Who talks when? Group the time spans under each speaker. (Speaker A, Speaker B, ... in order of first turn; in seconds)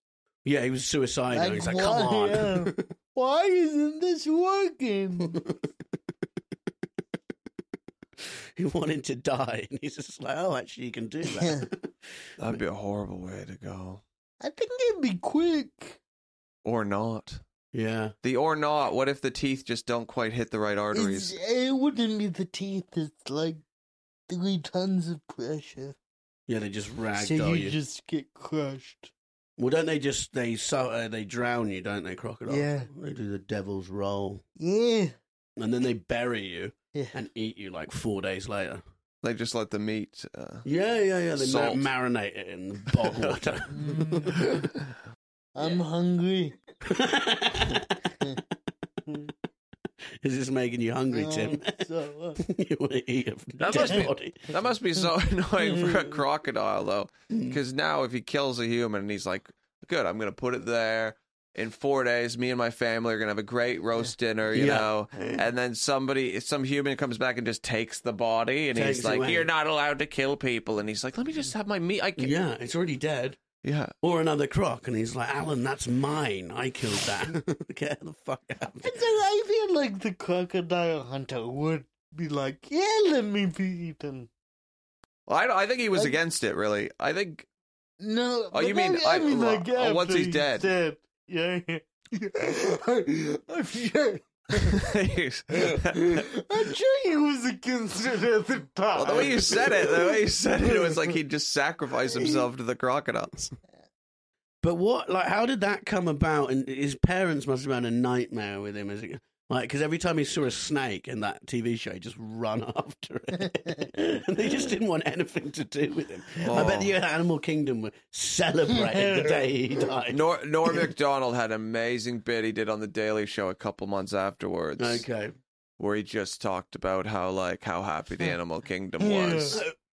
Speaker A: 0.4-2.7, 8.6-11.7, 17.7-18.1, 26.5-27.8, 29.6-34.4, 35.6-38.8, 40.6-44.4, 46.9-48.0, 50.2-51.7, 52.4-54.5, 57.3-57.6, 64.5-64.9, 68.7-69.5, 72.2-73.4, 74.0-78.9, 104.6-120.8, 124.8-125.3
Speaker B: 1.3-5.4, 11.3-11.7, 14.4-16.0, 20.9-23.6, 24.3-25.9, 27.2-29.1, 32.5-32.9, 34.6-35.1, 43.7-44.5, 45.5-46.6, 51.1-52.4, 78.8-84.3, 88.0-94.8, 95.5-100.2, 100.7-101.1, 118.8-119.4, 129.0-129.6
Speaker C: 12.4-14.0, 16.6-17.4, 18.2-21.3, 39.2-40.6, 41.4-41.9, 43.0-43.4, 53.6-72.3, 73.6-73.9, 85.3-87.5, 88.5-90.7, 94.6-96.2, 99.0-103.5, 116.4-117.0, 120.1-125.0, 125.8-129.6